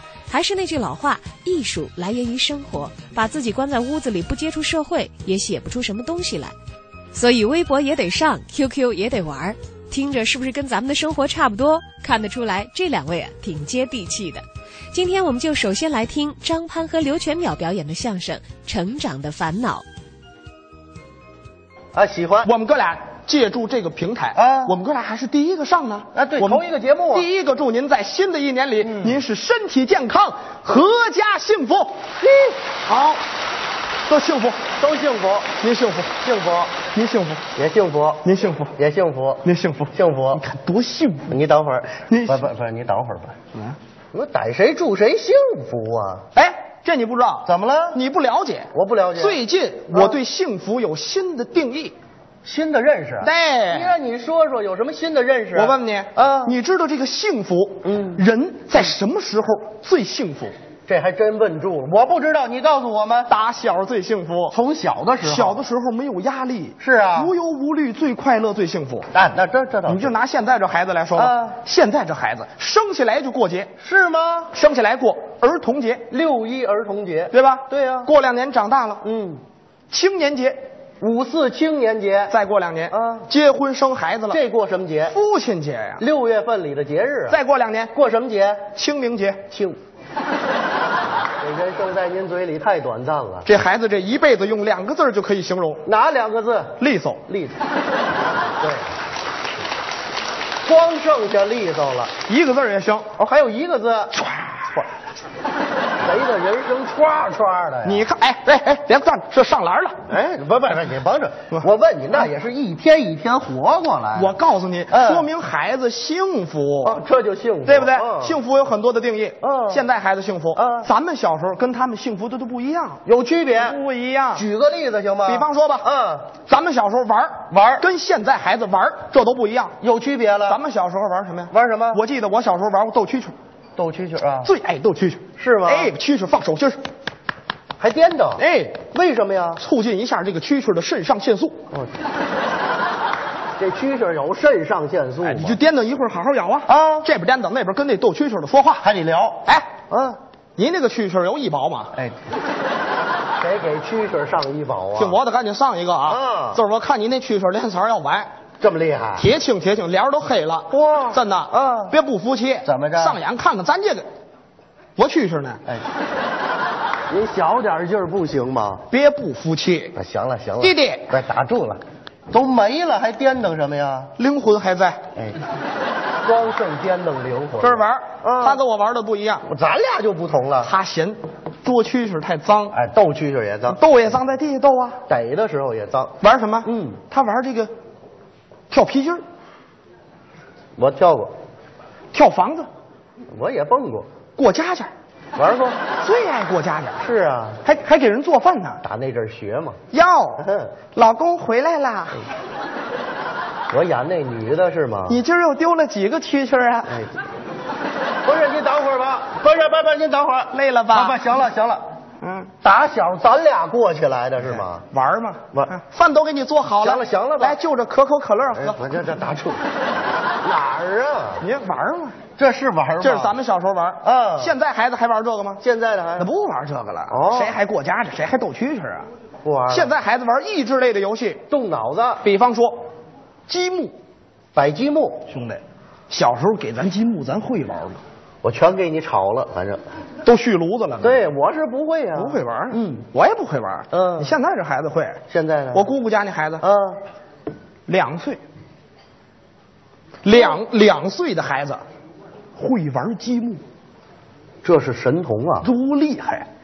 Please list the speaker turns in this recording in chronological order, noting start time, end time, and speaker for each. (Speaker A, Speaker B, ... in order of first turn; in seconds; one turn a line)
Speaker A: 0.3-6.5
Speaker A: 7.1-19.8
Speaker B: 21.9-22.5
Speaker C: 22.4-32.0
Speaker B: 24.3-24.8
Speaker B: 26.1-27.3
Speaker B: 28.8-29.2
Speaker B: 32.2-32.6
Speaker C: 32.9-33.2
Speaker C: 34.1-34.6
Speaker B: 34.8-35.5
Speaker C: 35.6-37.4
Speaker B: 36.2-36.7
Speaker B: 37.5-40.4
Speaker C: 38.2-38.7
Speaker C: 39.4-41.4
Speaker B: 41.3-43.4
Speaker C: 42.1-42.5
Speaker B: 44.1-46.2
Speaker C: 46.3-51.9
Speaker B: 47.4-48.0
Speaker B: 48.7-50.2
Speaker B: 52.4-56.6
Speaker C: 53.2-54.0
Speaker C: 55.5-60.5
Speaker B: 57.8-58.2
Speaker B: 60.9-63.3
Speaker C: 63.3-64.5
Speaker B: 64.5-65.6
Speaker C: 65.2-69.1
Speaker B: 66.8-67.3
Speaker B: 69.1-70.1
Speaker C: 69.9-73.7
Speaker B: 71.1-71.6
Speaker B: 73.8-74.5
Speaker C: 74.5-76.0
Speaker B: 76.1-78.1
Speaker C: 77.3-79.0
Speaker B: 79.0-79.4
Speaker C: 79.9-80.6
Speaker B: 81.0-82.3
Speaker C: 82.3-84.4
Speaker B: 82.9-83.3
Speaker B: 84.3-85.2
Speaker C: 85.1-86.0
Speaker B: 86.0-87.4
Speaker C: 87.3-87.9
Speaker B: 87.9-88.7
Speaker C: 88.7-89.4
Speaker B: 89.5-89.8
Speaker B: 91.4-93.5
Speaker C: 93.5-95.8
Speaker B: 95.8-96.8
Speaker C: 96.8-97.2
Speaker B: 97.3-97.6
Speaker B: 98.6-98.9
Speaker B: 100.6-102.1
Speaker C: 102.3-103.1
Speaker B: 103.2-104.9
Speaker B: 106.0-108.1
Speaker C: 107.8-110.0
Speaker B: 110.1-114.3
Speaker C: 114.1-117.0
Speaker B: 114.9-115.3
Speaker B: 116.8-118.4
Speaker C: 117.7-123.0
Speaker B: 119.4-119.8
Speaker B: 120.5-120.9
Speaker B: 123.0-123.8
Speaker C: 123.5-124.5
Speaker B: 124.3-126.3
Speaker C: 125.2-125.9
Speaker C: 126.4-129.7
Speaker B: 127.5-127.9
Speaker B: 129.8-130.6
Speaker C: 130.5-133.3
Speaker B: 131.5-132.0
Speaker B: 133.8-134.5
Speaker C: 134.4-136.8
Speaker B: 135.4-135.9
Speaker B: 137.8-139.6
Speaker C: 138.4-138.8
Speaker C: 139.6-141.6
Speaker B: 143.6-145.6
Speaker C: 145.2-148.8
Speaker B: 146.7-147.1
Speaker B: 148.8-150.2
Speaker C: 149.4-149.7
Speaker C: 150.6-151.9
Speaker B: 153.3-155.2
Speaker C: 154.9-158.3
Speaker B: 156.0-156.6
Speaker B: 158.6-159.3
Speaker C: 159.2-164.1
Speaker B: 160.7-162.0
Speaker B: 162.6-163.2
Speaker C: 165.0-165.6
Speaker B: 167.1-168.9
Speaker C: 168.9-169.9
Speaker B: 169.9-174.1
Speaker C: 170.6-171.1
Speaker C: 174.2-175.0
Speaker B: 176.2-178.6
Speaker C: 177.6-179.4
Speaker B: 179.5-180.7
Speaker C: 180.6-182.7
Speaker B: 182.7-183.8
Speaker C: 183.7-185.0
Speaker B: 185.1-187.0
Speaker C: 186.2-187.7
Speaker C: 188.7-189.2
Speaker B: 190.8-191.3
Speaker C: 192.1-192.7
Speaker B: 193.3-194.1
Speaker C: 194.4-194.9
Speaker B: 195.3-195.8
Speaker C: 196.0-197.0
Speaker B: 197.0-197.6
Speaker C: 197.6-198.8
Speaker B: 198.8-199.8
Speaker C: 199.9-202.3
Speaker B: 200.4-200.7
Speaker B: 203.7-205.2
Speaker C: 205.1-207.0
Speaker B: 206.8-207.1
Speaker B: 208.2-211.8
Speaker C: 210.5-211.2
Speaker C: 212.2-212.5
Speaker B: 212.6-214.8
Speaker C: 214.4-218.8
Speaker B: 216.8-217.6
Speaker B: 218.5-219.6
Speaker B: 220.4-221.4
Speaker C: 221.4-222.2
Speaker B: 222.4-223.3
Speaker C: 223.0-225.6
Speaker B: 224.0-224.6
Speaker B: 225.6-226.3
Speaker C: 226.2-229.1
Speaker B: 227.1-227.6
Speaker B: 229.4-230.0
Speaker C: 229.7-231.4
Speaker B: 231.5-232.2
Speaker C: 232.2-232.8
Speaker C: 233.5-233.9
Speaker B: 234.5-235.3
Speaker C: 235.3-238.0
Speaker B: 238.4-239.8
Speaker C: 240.2-241.3
Speaker B: 241.0-243.1
Speaker C: 242.1-245.2
Speaker B: 243.9-244.4
Speaker B: 245.3-245.9
Speaker C: 245.7-246.6
Speaker B: 246.6-247.0
Speaker C: 247.9-248.4
Speaker C: 250.2-251.8
Speaker B: 250.3-250.6
Speaker C: 252.6-253.6
Speaker B: 254.6-255.7
Speaker C: 255.6-256.4